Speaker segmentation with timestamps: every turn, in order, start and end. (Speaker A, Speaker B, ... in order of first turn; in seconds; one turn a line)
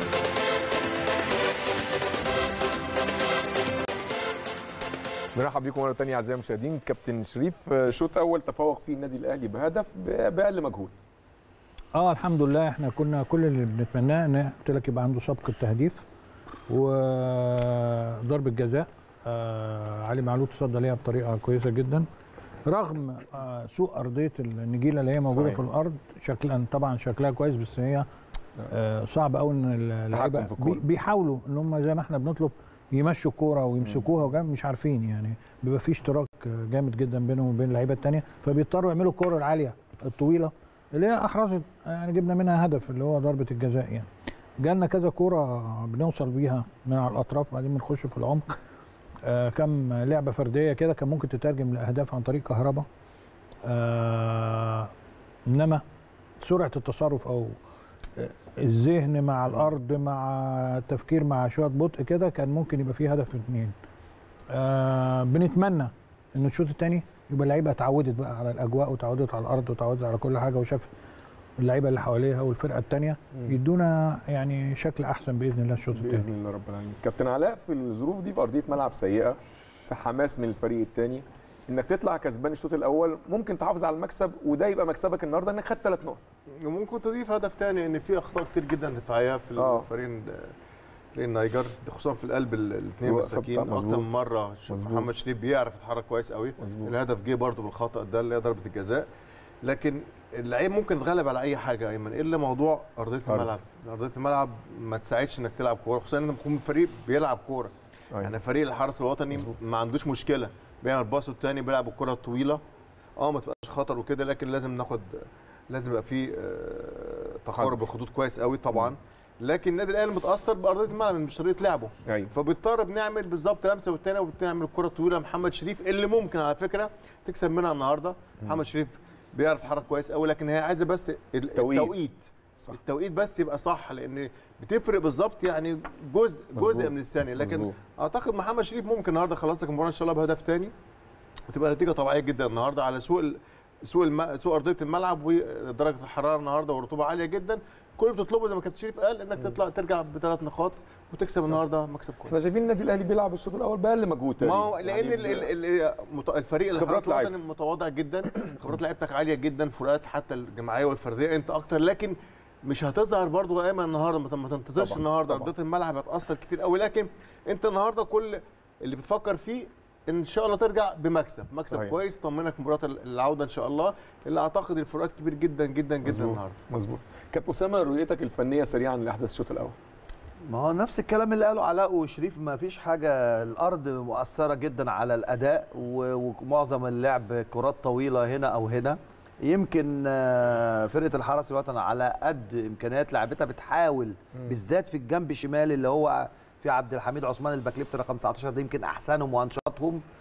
Speaker A: 5.3-10.9
Speaker B: 11.9-16.1
Speaker B: 16.7-22.1
Speaker B: 22.7-28.1
Speaker A: 25.3-25.6
Speaker B: 28.7-44.1
Speaker A: 30.1-30.8
Speaker B: 44.6-48.6
Speaker B: 49.2-52.9
Speaker B: 53.6-54.9
Speaker B: 55.5-55.8
Speaker B: 56.4-57.6
Speaker B: 58.2-63.7
Speaker B: 64.5-70.9
Speaker B: 71.6-76.3
Speaker A: 75.9-86.2
Speaker C: 86.6-90.5
Speaker A: 89.6-89.9
Speaker C: 91.2-99.1
Speaker A: 93.1-94.1
Speaker A: 94.7-95.1
Speaker A: 96.6-96.9
Speaker C: 99.6-112.6
Speaker A: 103.3-103.5
Speaker C: 113.2-140.7
Speaker A: 131.6-131.9
Speaker A: 136.6-137.7
Speaker C: 141.5-152.3
Speaker A: 152.3-155.5
Speaker C: 154.4-176.6
Speaker A: 156.7-157.4
Speaker A: 164.8-165.4
Speaker A: 176.1-179.8
Speaker D: 180.5-200.0